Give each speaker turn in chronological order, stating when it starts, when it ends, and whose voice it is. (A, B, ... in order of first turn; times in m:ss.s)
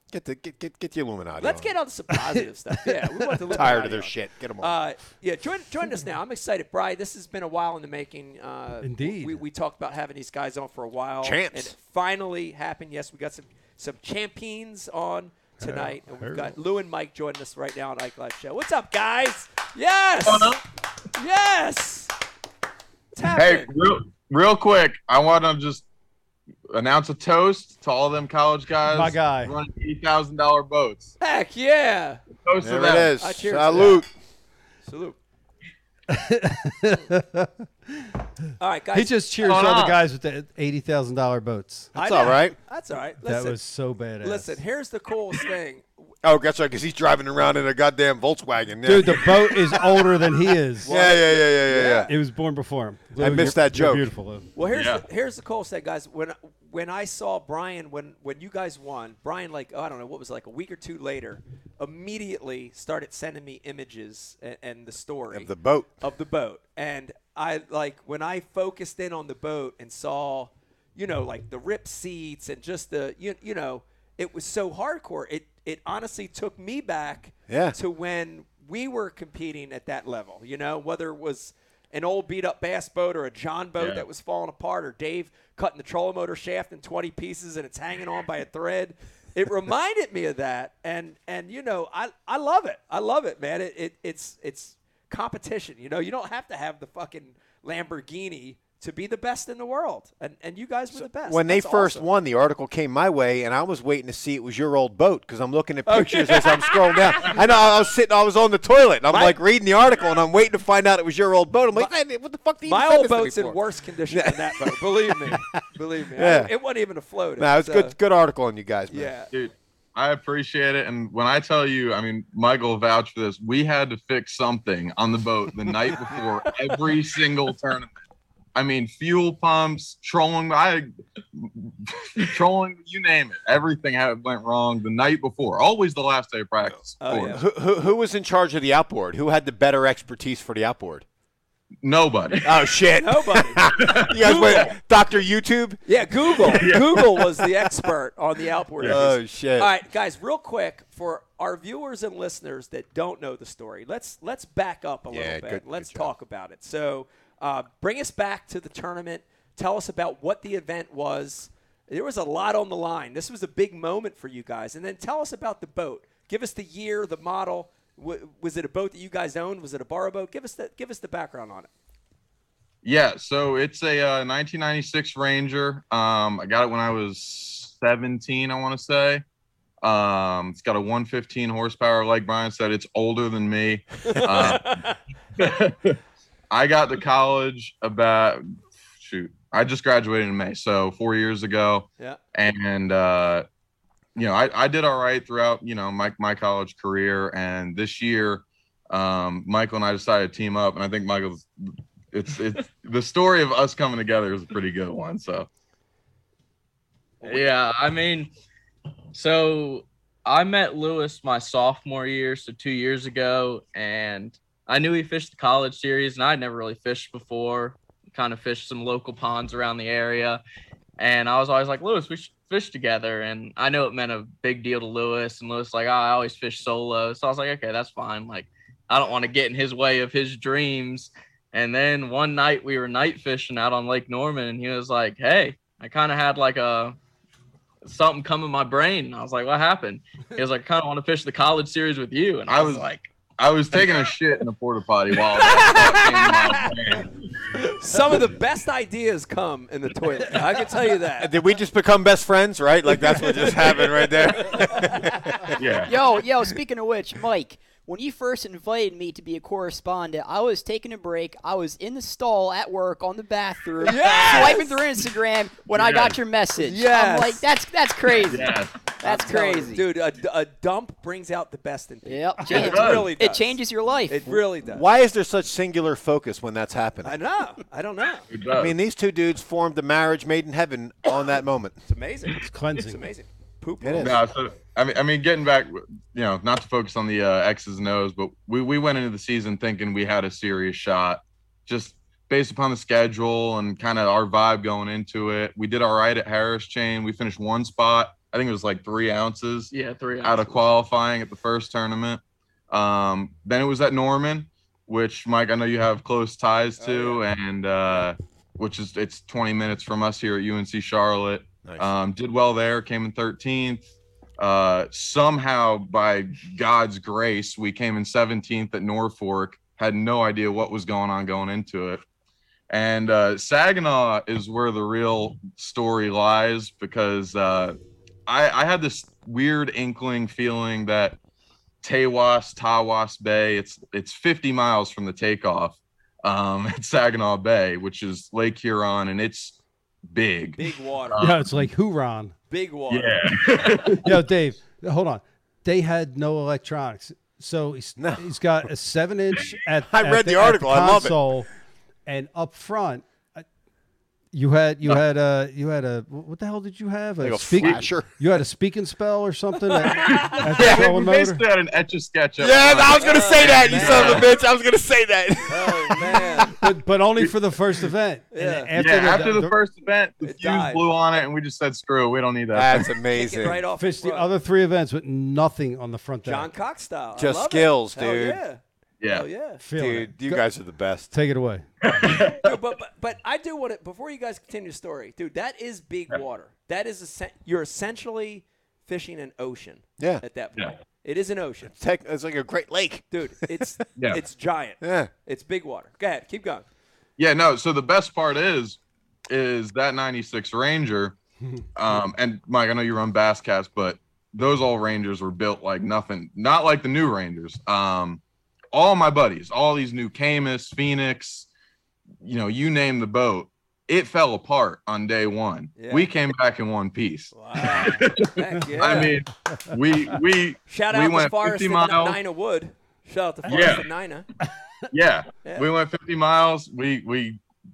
0:00.1-0:01.7 A
0:01.4-0:20.6 B
0:02.2-0:03.5 C
0:03.5-0:04.8 A
0:08.8-0:09.4 C
0:11.2-0:11.7 A
0:15.6-0:16.6 C
0:20.2-0:20.6 D
0:21.2-0:22.1 B
0:23.2-0:23.7 B
0:23.3-0:25.8 D
0:26.7-0:31.1 D
0:28.9-0:29.5 C
0:31.2-0:32.2 B
0:32.4-0:33.2 D
0:32.6-0:34.1 A
0:33.2-0:34.0 B
0:34.8-0:35.2 B
0:36.1-0:38.1 C
0:38.6-0:39.2 B
0:38.9-0:41.9 C
0:39.4-0:40.0 D
0:41.9-0:43.6 B
0:42.0-0:42.6 A
0:43.2-0:44.6 C
0:44.2-0:46.1 B
0:46.2-0:49.8 A
0:48.8-0:51.1 C
0:50.8-0:52.1 B
0:50.8-0:52.1 A
0:51.8-0:54.5 C
0:53.2-0:54.1 A
0:54.6-1:42.1 B
0:54.7-0:55.0 D
1:05.3-1:05.9 A
1:17.5-1:17.8 A
1:23.8-1:24.0 D
1:40.9-1:55.6 A
1:45.9-1:47.4 B
1:49.1-1:49.4 B
1:52.6-1:58.0 B
1:56.1-1:56.5 A
1:57.4-1:59.1 A
1:58.9-1:59.3 B
1:59.3-2:07.9 D
2:08.6-2:17.4 D
2:17.0-2:17.4 B
2:17.3-2:21.0 A
2:21.8-2:22.5 D
2:22.4-2:26.7 A
2:22.9-2:24.8 B
2:23.8-2:24.7 D
2:25.8-2:51.7 B
2:26.6-2:27.2 D
2:28.8-2:29.7 A
2:35.1-2:36.1 A
2:52.8-2:59.2 D
2:59.8-3:04.8 D
3:04.1-3:05.0 B
3:05.4-3:06.0 D
3:06.5-3:13.4 D
3:14.2-3:25.5 D
3:27.2-3:28.3 E
3:29.1-3:40.4 E
3:41.0-3:57.0 E
3:57.8-4:03.1 E
4:02.5-4:07.1 D
4:05.4-4:06.7 B
4:07.6-4:11.3 B
4:11.2-4:15.6 A
4:13.0-4:15.1 B
4:15.6-4:15.9 D
4:15.9-4:29.8 F
4:23.8-4:24.8 B
4:25.7-4:26.2 D
4:26.6-4:27.4 B
4:28.3-4:28.7 D
4:29.0-4:34.8 B
4:32.0-4:34.2 F
4:32.5-4:33.1 D
4:34.3-4:37.2 A
4:37.0-4:38.3 B
4:38.3-4:38.7 D
4:38.5-4:41.8 A
4:41.9-4:44.2 B
4:42.4-4:43.1 C
4:43.8-4:44.2 A
4:44.0-5:13.9 D
4:59.7-5:00.6 E
5:06.8-5:07.2 B
5:11.6-5:11.9 A
5:14.4-5:22.0 D
5:22.7-5:31.2 D
5:31.8-5:40.6 D
5:40.6-5:41.2 B
5:41.1-5:41.7 D
5:41.2-5:42.4 C
5:42.5-5:43.3 B
5:42.9-5:44.2 D
5:43.7-5:51.5 C
5:48.0-5:48.2 A
5:49.9-5:51.2 A
5:52.1-5:53.4 C
5:54.3-6:01.4 C
5:57.2-5:58.2 A
5:59.8-6:04.3 D
6:00.6-6:00.9 A
6:02.4-6:06.7 A
6:02.9-6:04.3 B
6:05.5-6:06.5 B
6:06.6-6:09.6 C
6:08.3-6:08.7 B
6:08.8-6:12.9 D
6:10.2-6:10.8 B
6:12.5-6:13.6 A
6:13.1-6:14.3 B
6:13.8-6:16.5 C
6:16.2-6:19.6 B
6:17.2-6:18.4 A
6:19.0-6:19.3 D
6:19.6-6:20.4 C
6:19.8-6:21.1 A
6:21.1-6:21.6 C
6:21.8-6:22.5 D
6:22.3-6:31.7 B
6:31.7-6:33.8 A
6:33.1-6:36.6 B
6:34.8-6:35.1 A
6:37.2-6:41.2 D
6:41.8-6:48.2 D
6:48.7-6:51.5 D
6:52.2-7:02.2 D
6:55.8-6:56.1 B
6:57.3-6:59.2 B
7:00.7-7:04.3 B
7:03.4-7:03.9 D
7:04.9-7:07.4 D
7:05.4-7:05.7 B